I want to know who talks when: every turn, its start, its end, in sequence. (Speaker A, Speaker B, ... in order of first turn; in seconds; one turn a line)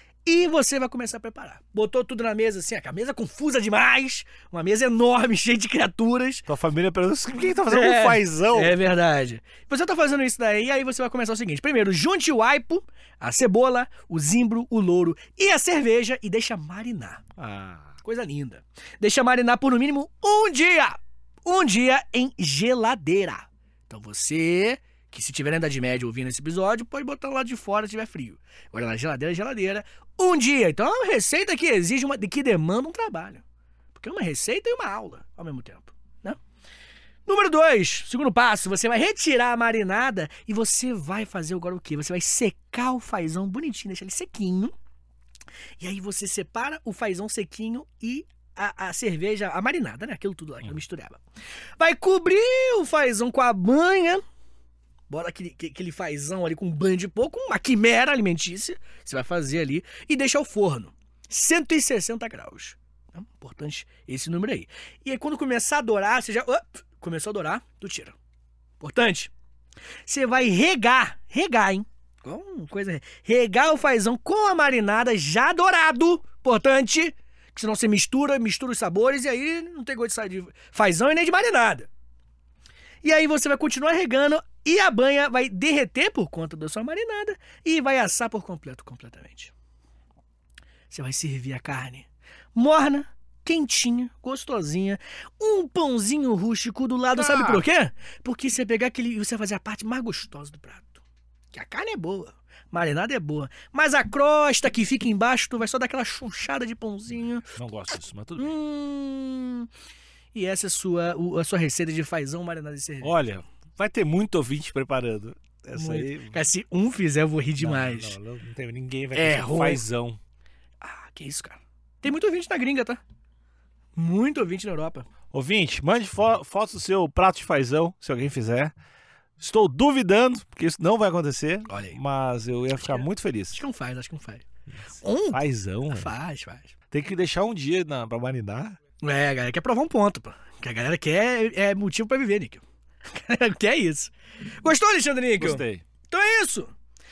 Speaker A: 0.2-6.5
Speaker B: 6.5-8.8
Speaker A: 7.7-17.2
Speaker B: 17.4-18.0
Speaker A: 18.0-33.4
Speaker A: 33.9-36.4
Speaker A: 37.3-44.7
Speaker A: 45.8-51.2
Speaker A: 51.8-54.2
Speaker A: 55.1-68.2
Speaker A: 68.8-69.3
Speaker A: 70.1-81.9
Speaker A: 83.0-89.5
Speaker A: 90.9-107.5
Speaker B: 97.2-97.7
Speaker B: 107.6-108.6
Speaker A: 108.4-109.7
Speaker A: 110.3-113.1
Speaker B: 113.0-116.4
Speaker A: 115.8-118.2
Speaker B: 117.6-120.2
Speaker A: 119.2-119.8
Speaker A: 120.8-123.0
Speaker A: 124.0-125.1
Speaker B: 125.3-128.7
Speaker B: 129.4-133.6
Speaker A: 131.7-132.0
Speaker A: 132.8-134.4
Speaker B: 134.8-136.1
Speaker A: 135.0-136.7
Speaker B: 136.9-138.8
Speaker A: 139.0-146.7
Speaker B: 145.4-145.8